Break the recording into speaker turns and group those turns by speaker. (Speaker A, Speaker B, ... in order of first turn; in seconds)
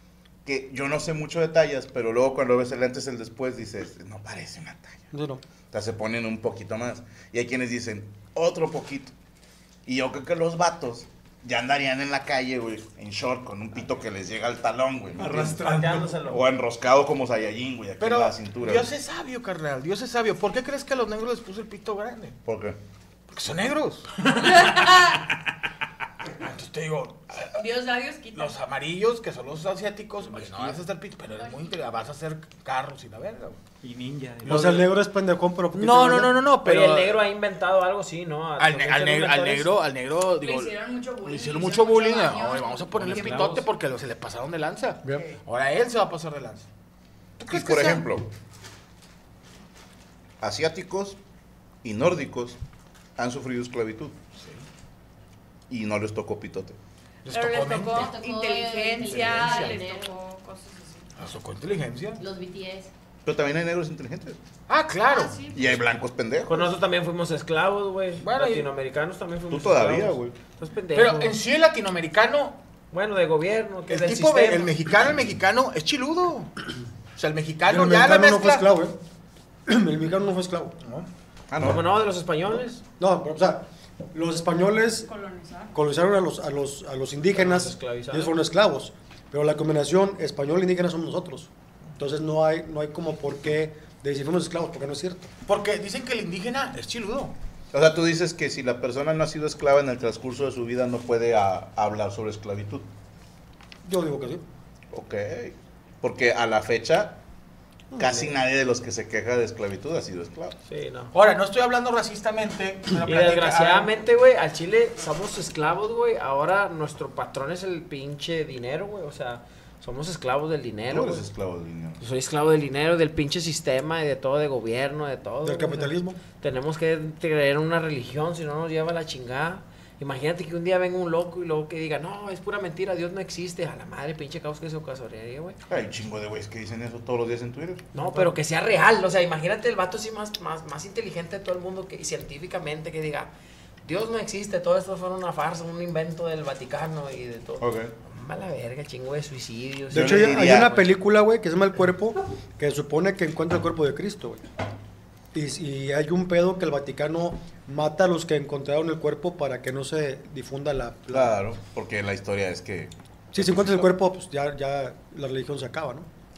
Speaker A: 0.5-5.1, 5.7-9.1, 9.9-18.9, 22.4-22.8, 47.4-48.3, 50.4-51.2, 51.8-52.6, 53.2-54.2, 55.7-56.8, 63.2-64.4, 65.5-66.7, 69.5-70.3, 81.5-81.9, 97.7-102.9, 104.9-107.2, 108.0-110.5, 120.9-122.0, 135.7-137.9, 147.6-147.9, 149.9-150.9, 161.1-163.9
Speaker B: 5.1-5.4, 34.4-36.4, 77.7-79.0, 79.7-80.8, 83.0-85.1, 85.7-95.3, 103.8-104.4, 125.4-126.2, 149.9-154.4, 155.3-161.4, 163.3-166.1
Speaker C: 15.2-16.2, 30.3-30.8, 33.8-34.9, 43.0-43.7
Speaker D: 15.6-16.4, 36.6-39.7, 66.4-71.3, 72.9-74.7, 81.6-82.8, 87.3-88.3, 110.7-111.1, 113.0-121.3, 122.0-135.6, 137.9-143.3, 143.8-150.6
Speaker E: 18.0-22.4, 23.3-24.4, 26.3-27.7, 28.4-33.6, 34.5-34.9, 35.7-37.3, 38.6-46.7, 47.4-48.1, 57.2-58.1, 59.0-59.8, 61.2-62.2, 64.7-65.4, 68.2-68.7, 70.9-72.6, 73.9-76.5, 77.2-78.7, 80.8-81.1, 95.5-97.3, 111.1-114.0
Speaker F: 24.4-25.2, 27.6-28.5, 40.4-43.5, 57.3-61.1, 65.1-65.7, 85.0-85.7
Speaker G: 57.9-60.2, 62.2-62.9